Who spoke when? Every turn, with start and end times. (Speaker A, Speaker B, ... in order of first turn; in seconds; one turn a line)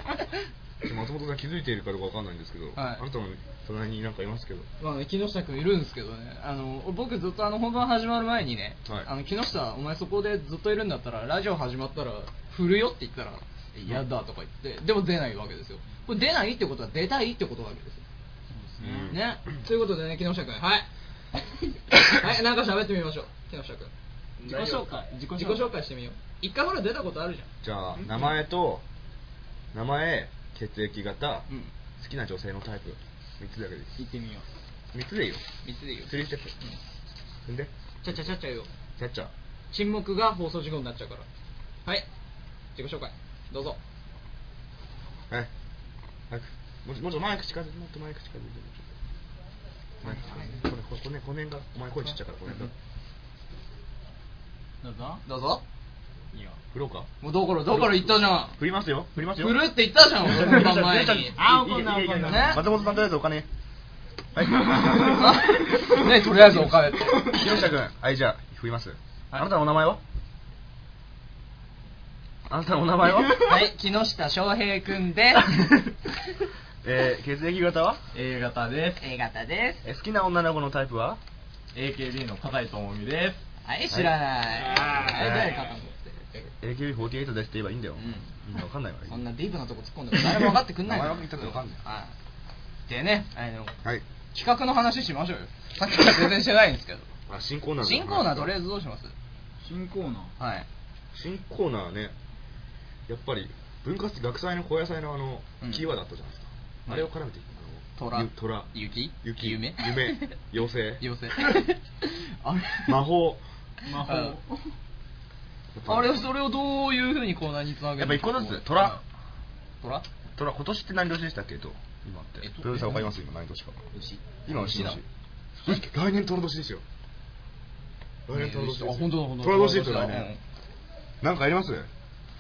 Speaker A: 0.8-4.7
Speaker B: 2.8-3.0
Speaker B: 4.8-18.0
Speaker C: 18.5-19.1
Speaker A: 18.8-19.2
Speaker B: 19.1-20.9
Speaker B: 22.1-27.5
Speaker C: 24.4-25.7
Speaker A: 27.6-28.9
Speaker A: 29.7-34.0
Speaker C: 34.0-34.5
Speaker A: 34.9-35.5
Speaker B: 35.6-36.8
Speaker A: 36.0-36.5
Speaker A: 37.5-38.2
Speaker B: 38.0-38.7
Speaker A: 39.0-39.3
Speaker B: 39.7-41.3
Speaker B: 42.8-43.8
Speaker A: 46.3-48.9
Speaker A: 50.0-52.7
Speaker B: 50.1-50.4
Speaker C: 54.8-55.2
Speaker B: 55.2-55.6
Speaker C: 56.3-56.6
Speaker A: 56.7-57.1
Speaker B: 57.2-58.6
Speaker A: 57.7-63.5
Speaker B: 59.4-61.4
Speaker C: 61.3-62.9
Speaker B: 62.3-62.6
Speaker A: 64.3-65.3
Speaker C: 64.7-65.1
Speaker B: 65.1-67.4
Speaker A: 67.2-70.0
Speaker A: 72.5-73.6
Speaker B: 73.5-75.5
Speaker A: 76.8-78.0
Speaker D: 78.1-79.0
Speaker B: 79.0-79.8
Speaker A: 79.8-81.2
Speaker D: 81.7-83.4
Speaker B: 83.7-86.5
Speaker A: 83.9-84.2
Speaker C: 84.7-85.5
Speaker A: 84.9-85.6
Speaker A: 86.6-89.3
Speaker B: 88.0-88.3
Speaker B: 89.1-92.1
Speaker A: 90.1-91.8
Speaker B: 92.9-93.8
Speaker B: 94.3-97.1
Speaker A: 97.3-98.5
Speaker B: 97.8-99.1
Speaker C: 99.6-100.3
Speaker B: 100.4-100.7
Speaker A: 101.1-102.1
Speaker A: 103.1-108.7
Speaker B: 105.6-105.9
Speaker B: 108.0-110.3
Speaker A: 109.2-111.5
Speaker B: 111.0-113.0
Speaker A: 112.8-113.4
Speaker C: 113.8-114.7
Speaker B: 114.0-114.4
Speaker A: 115.7-116.3
Speaker B: 115.9-119.0
Speaker A: 118.0-119.0
Speaker B: 119.8-120.1
Speaker A: 120.4-123.9
Speaker B: 122.4-123.1
Speaker A: 124.5-125.0
Speaker B: 124.5-125.0
Speaker A: 125.6-126.8
Speaker A: 128.3-130.3
Speaker B: 128.3-130.4
Speaker A: 131.2-131.9